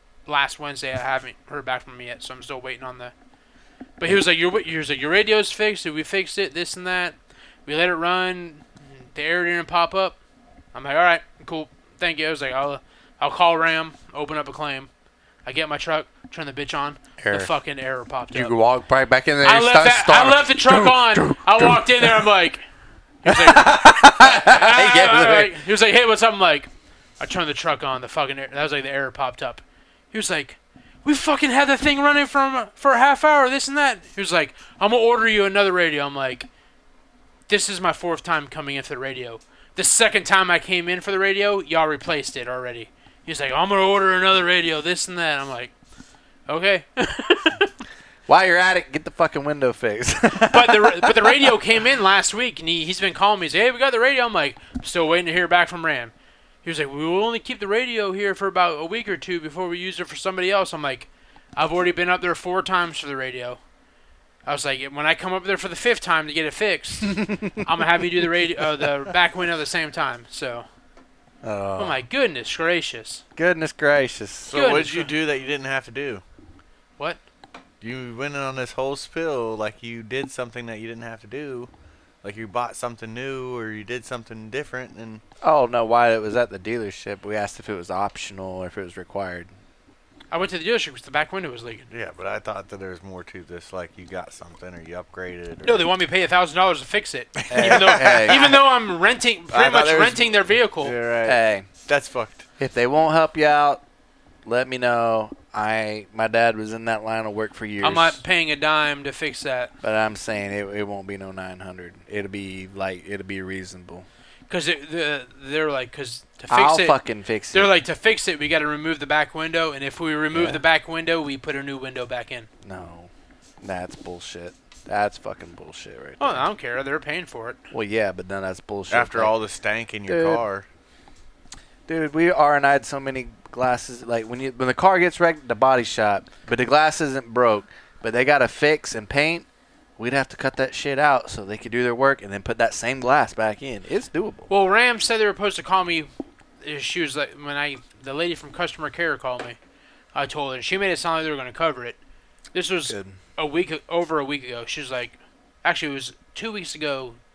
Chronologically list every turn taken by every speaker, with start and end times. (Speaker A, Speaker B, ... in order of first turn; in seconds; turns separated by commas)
Speaker A: 0.2-3.1, Speaker A: 4.0-10.2, Speaker A: 10.7-14.9, Speaker A: 15.4-18.5, Speaker B: 17.2-17.5, Speaker B: 18.3-22.3, Speaker A: 19.4-22.6, Speaker A: 23.2-26.7, Speaker B: 23.2-25.5, Speaker A: 27.2-36.5, Speaker A: 37.5-45.7, Speaker A: 46.5-47.7, Speaker B: 48.3-51.6, Speaker A: 50.5-56.1, Speaker A: 56.6-63.6, Speaker A: 64.5-70.6, Speaker B: 67.0-67.8, Speaker B: 71.4-72.0, Speaker A: 71.8-73.2, Speaker B: 73.3-74.5, Speaker C: 74.5-76.2, Speaker A: 74.5-75.1, Speaker C: 77.8-81.7, Speaker C: 82.2-85.2, Speaker B: 85.4-89.5, Speaker A: 90.3-91.8, Speaker C: 91.9-95.9, Speaker A: 95.6-100.9, Speaker C: 97.4-98.6, Speaker B: 97.5-98.5, Speaker C: 99.5-102.4, Speaker B: 101.2-101.7, Speaker B: 102.6-103.8, Speaker B: 104.5-108.2, Speaker A: 107.8-109.7, Speaker B: 109.8-114.0, Speaker A: 114.5-117.0, Speaker B: 116.5-117.7, Speaker A: 117.5-122.5, Speaker B: 120.3-120.6, Speaker B: 122.6-123.1, Speaker B: 123.6-126.4, Speaker A: 126.2-127.6, Speaker B: 127.7-129.3, Speaker C: 128.9-130.7, Speaker B: 130.1-130.4, Speaker B: 131.9-139.4, Speaker B: 140.0-144.5, Speaker A: 144.5-146.1, Speaker A: 146.6-149.6, Speaker A: 150.1-152.0, Speaker A: 152.5-157.2, Speaker B: 152.9-153.2